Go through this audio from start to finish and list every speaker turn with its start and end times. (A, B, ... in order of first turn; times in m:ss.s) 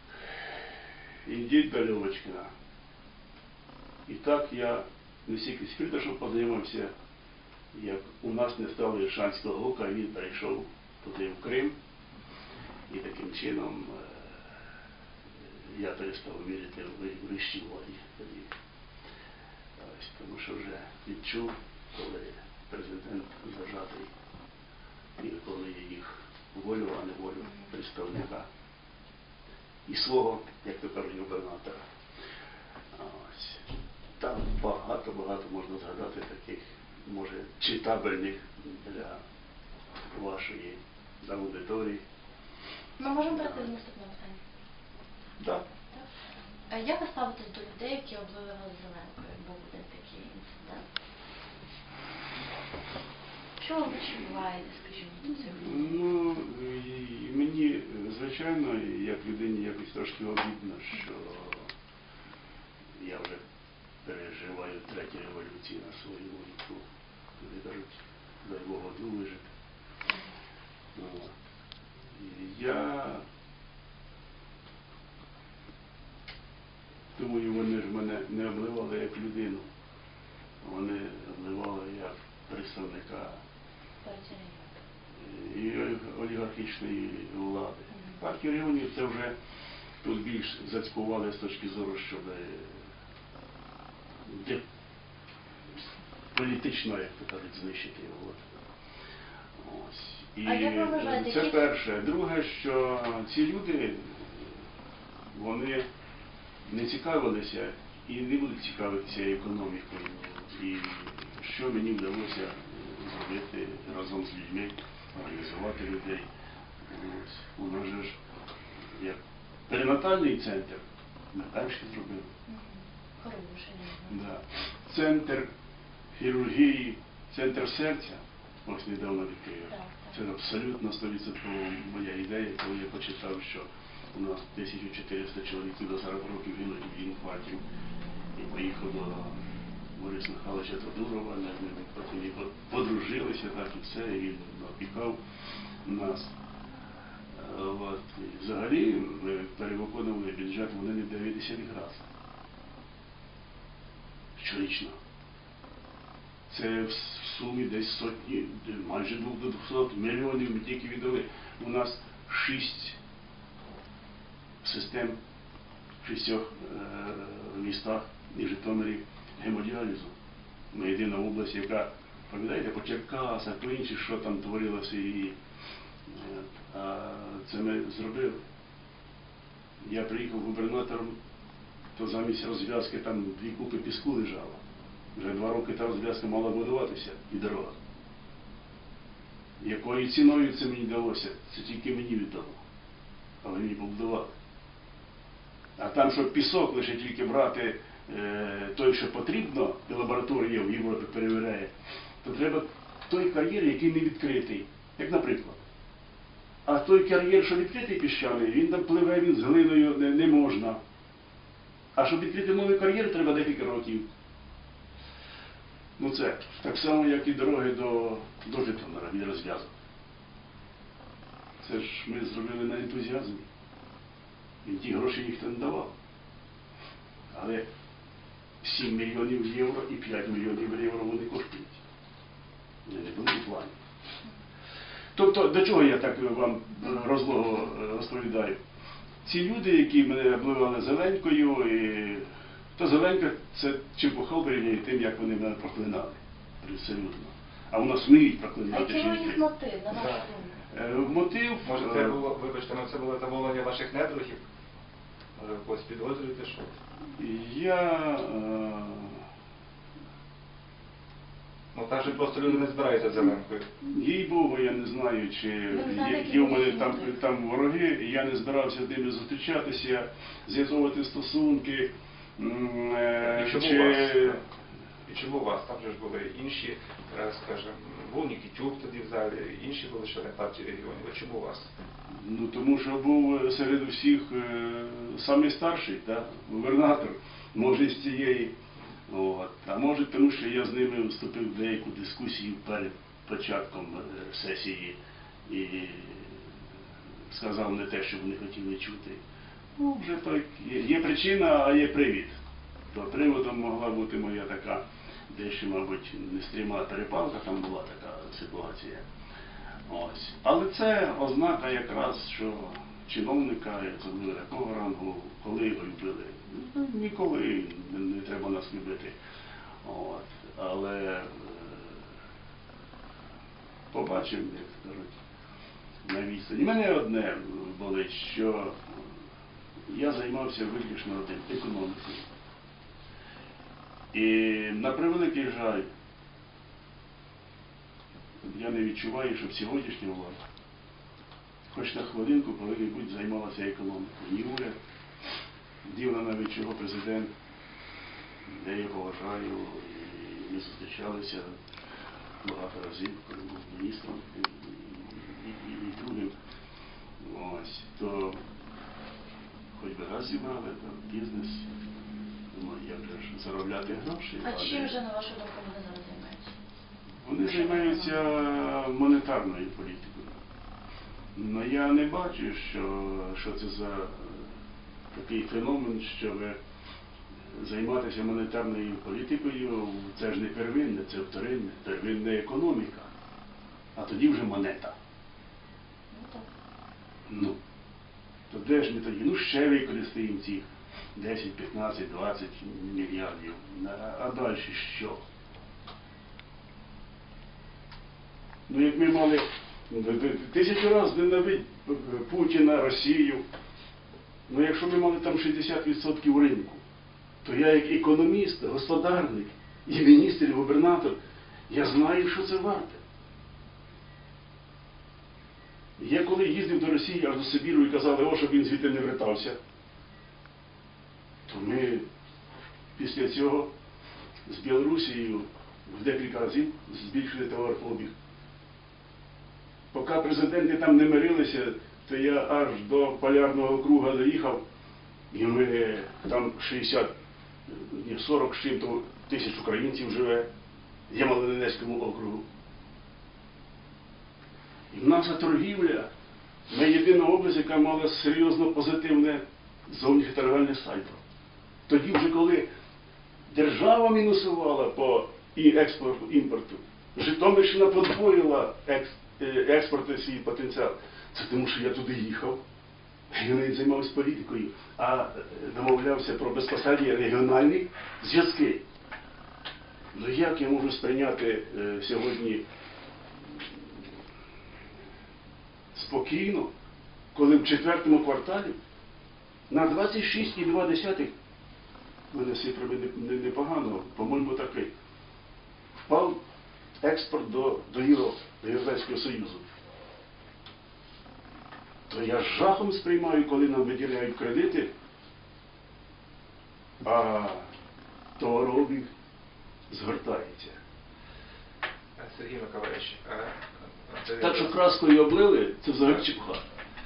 0:01.2-0:02.5 A
0:04.1-0:06.9 A
0:07.7-0:11.8 A
0:12.9-0:14.4 A
0:15.7-0:18.5 A
0:19.8-0:24.1 A
0:25.2-0:28.5 A
0:29.9-0:31.8 A
0:33.0-0:33.6 A
0:34.2-0:39.2 A
0:40.1-0:42.0 A
0:43.0-0:44.4 B
0:43.2-0:43.7 A
0:46.7-0:50.9 B
0:53.6-0:56.0 B
0:55.5-1:01.7 A
1:03.0-1:03.4 A
1:04.0-1:06.8 A
1:07.4-1:09.5 A
1:11.0-1:11.3 A
1:12.2-1:13.2 A
1:17.2-1:19.6 A
1:20.6-1:23.4 A
1:24.0-1:24.8 B
1:25.2-1:29.4 A
1:27.9-1:28.2 B
1:30.0-1:32.8 A
1:34.3-1:34.6 A
1:36.3-1:38.5 A
1:39.6-1:44.5 A
1:40.4-1:41.6 B
1:45.3-1:45.9 A
1:46.7-1:56.3 A
1:56.9-1:58.2 A
1:58.9-2:02.3 A
2:02.5-2:04.2 B
2:04.1-2:05.5 A
2:06.2-2:17.6 A
2:09.7-2:10.1 B
2:18.4-2:19.4 A
2:20.0-2:25.2 A
2:25.8-2:26.4 A
2:27.3-2:32.1 A
2:34.4-2:35.0 A
2:36.5-2:43.0 A
2:44.6-2:45.2 A
2:46.0-2:50.1 A
2:50.7-2:55.4 A
2:56.1-2:58.4 A
2:59.8-3:01.2 A
3:02.0-3:04.6 A
3:05.2-3:07.8 A
3:09.6-3:12.6 A
3:13.4-3:14.3 A
3:15.8-3:25.6 A
3:26.6-3:30.8 A
3:32.0-3:34.1 A
3:36.0-3:39.7 A
3:41.6-3:43.4 A
3:44.6-3:45.9 A
3:47.3-3:47.7 A
3:48.6-3:51.8 A
3:52.9-3:53.8 A
3:55.2-3:58.6 A
3:59.2-4:09.4 A
4:08.7-4:10.6 B
4:10.0-4:10.2 C
4:10.7-4:12.2 A
4:11.6-4:14.4 C
4:15.4-4:16.7 C
4:17.2-4:19.2 A
4:21.7-4:23.7 C
4:23.8-4:34.4 A
4:25.7-4:27.2 B
4:33.2-4:34.4 C
4:35.1-4:41.7 C
4:42.1-4:48.6 A
4:49.1-4:56.4 A
4:57.3-4:59.2 A
4:59.8-5:02.4 A
5:02.9-5:09.1 A
5:09.9-5:19.2 A
5:19.8-5:22.0 A
5:23.9-5:25.2 A
5:26.0-5:29.0 A
5:29.9-5:32.3 A
5:34.1-5:35.9 A
5:38.4-5:40.4 A
5:41.7-5:44.8 A
5:45.8-5:47.3 A
5:48.5-5:51.6 A
5:52.4-5:56.3 A
5:57.2-5:58.4 A
5:59.8-6:01.7 A
6:02.5-6:05.0 A
6:04.4-6:06.6 B
6:07.2-6:10.3 A
6:07.5-6:08.3 B
6:11.4-6:14.5 A
6:15.1-6:16.6 A
6:17.5-6:23.1 A
6:24.0-6:25.0 A
6:26.1-6:26.5 B
6:27.3-6:27.6 A
6:28.5-6:35.2 A
6:38.7-6:43.4 A
6:44.5-6:46.8 A
6:47.4-6:51.2 A
6:51.7-6:53.0 A
6:56.0-6:59.6 A
7:01.5-7:02.1 A
7:03.0-7:03.7 A
7:04.5-7:08.1 A
7:09.9-7:14.6 A
7:15.3-7:17.1 A
7:17.7-7:20.5 A
7:21.1-7:22.5 A
7:24.9-7:26.1 A
7:26.7-7:31.2 A
7:31.9-7:32.7 A
7:33.5-7:42.6 A
7:43.3-7:48.8 A
7:50.1-7:52.6 A
7:55.9-7:56.7 A
7:57.3-7:58.8 A
7:59.7-8:01.3 A
8:02.3-8:04.9 A
8:06.1-8:06.4 A
8:07.0-8:09.7 A
8:12.1-8:14.9 A
8:17.0-8:17.7 A
8:18.4-8:19.1 A
8:19.9-8:20.8 A
8:22.2-8:24.8 C
8:24.4-8:26.6 A